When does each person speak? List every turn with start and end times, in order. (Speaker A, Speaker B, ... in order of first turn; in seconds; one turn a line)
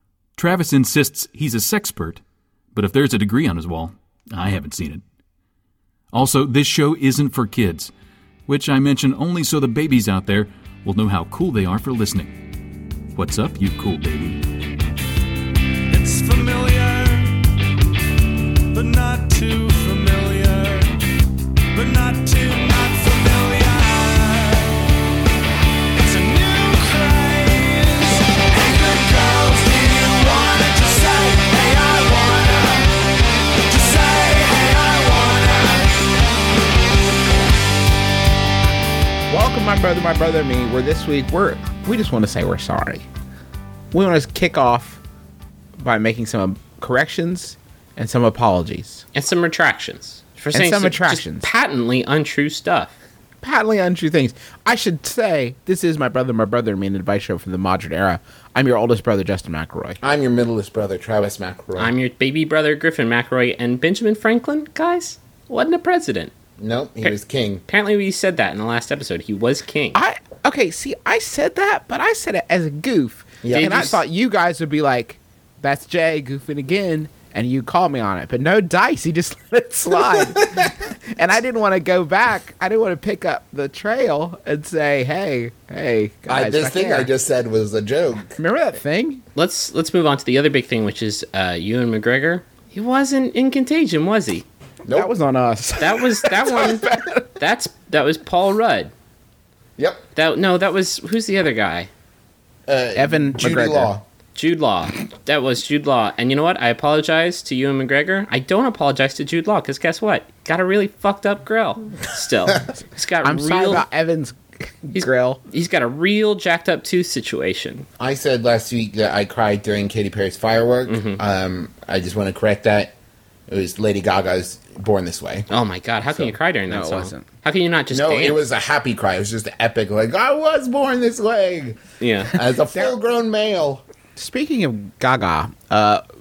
Speaker A: 0.4-2.2
Speaker A: 2.7-5.0
Speaker A: 6.1-7.9
Speaker A: 8.5-12.3
Speaker A: 13.1-14.4
Speaker B: 15.9-17.4
Speaker B: 18.7-20.9
Speaker B: 21.7-24.9
Speaker B: 25.9-33.1
Speaker B: 33.7-36.3
Speaker C: 39.3-43.0
Speaker C: 43.9-45.0
Speaker C: 45.8-49.0
Speaker D: 49.1-52.9
Speaker C: 50.5-51.5
Speaker C: 53.4-60.0
Speaker E: 60.0-61.9
Speaker D: 61.8-66.3
Speaker E: 66.6-67.6
Speaker D: 67.7-70.0
Speaker C: 69.9-87.1
Speaker E: 73.4-74.0
Speaker D: 73.5-74.0
Speaker E: 80.4-80.7
Speaker E: 86.3-88.4
Speaker C: 88.4-89.2
Speaker D: 89.3-94.5
Speaker C: 94.9-97.3
Speaker D: 95.8-98.9
Speaker E: 99.8-100.0
Speaker D: 100.1-101.9
Speaker E: 102.7-104.0
Speaker C: 103.0-103.9
Speaker D: 104.4-113.9
Speaker C: 113.2-115.4
Speaker D: 115.0-117.9
Speaker E: 118.0-122.9
Speaker D: 120.9-121.2
Speaker E: 123.5-125.5
Speaker D: 125.5-128.4
Speaker C: 126.7-127.3
Speaker E: 127.9-131.8
Speaker D: 132.0-132.3
Speaker E: 132.3-133.8
Speaker C: 134.2-136.0